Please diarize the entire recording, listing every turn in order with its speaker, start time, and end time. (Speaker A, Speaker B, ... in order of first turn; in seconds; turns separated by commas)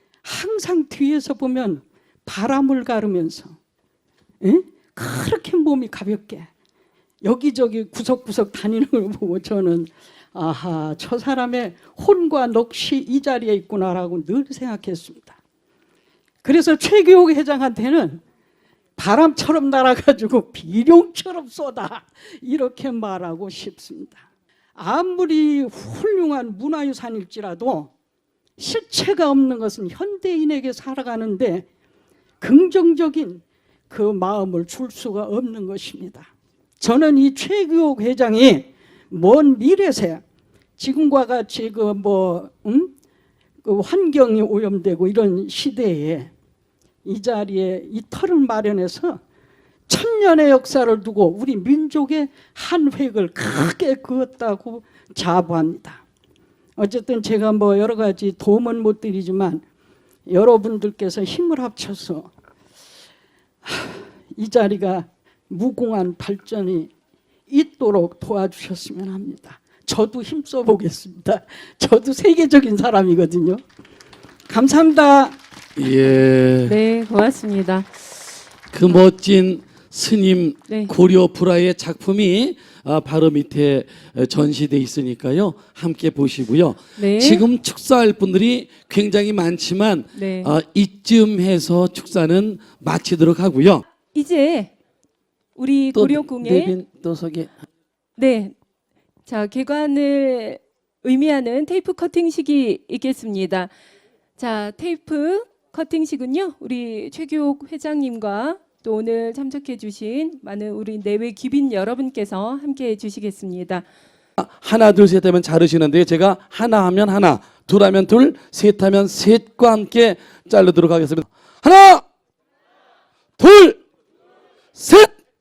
Speaker A: 0.2-3.6, Speaker A: 4.4-6.5, Speaker A: 7.2-15.4, Speaker A: 16.4-18.2, Speaker A: 19.0-27.9, Speaker A: 28.6-31.7, Speaker A: 32.4-40.2, Speaker A: 40.8-42.9, Speaker A: 43.6-46.3, Speaker A: 47.0-49.2, Speaker A: 49.9-56.0, Speaker A: 56.8-59.6, Speaker A: 60.3-62.3, Speaker A: 63.6-66.9, Speaker A: 67.5-73.6, Speaker A: 74.5-75.4, Speaker B: 75.8-76.8, Speaker C: 76.7-78.1, Speaker B: 78.7-93.8, Speaker C: 80.7-80.9, Speaker C: 87.0-87.4, Speaker C: 90.1-90.5, Speaker C: 94.1-94.7, Speaker C: 95.5-96.7, Speaker B: 95.9-97.5, Speaker C: 98.2-98.5, Speaker C: 99.3-103.7, Speaker C: 104.4-113.8, Speaker B: 114.4-122.0, Speaker B: 123.4-123.8, Speaker B: 124.7-125.2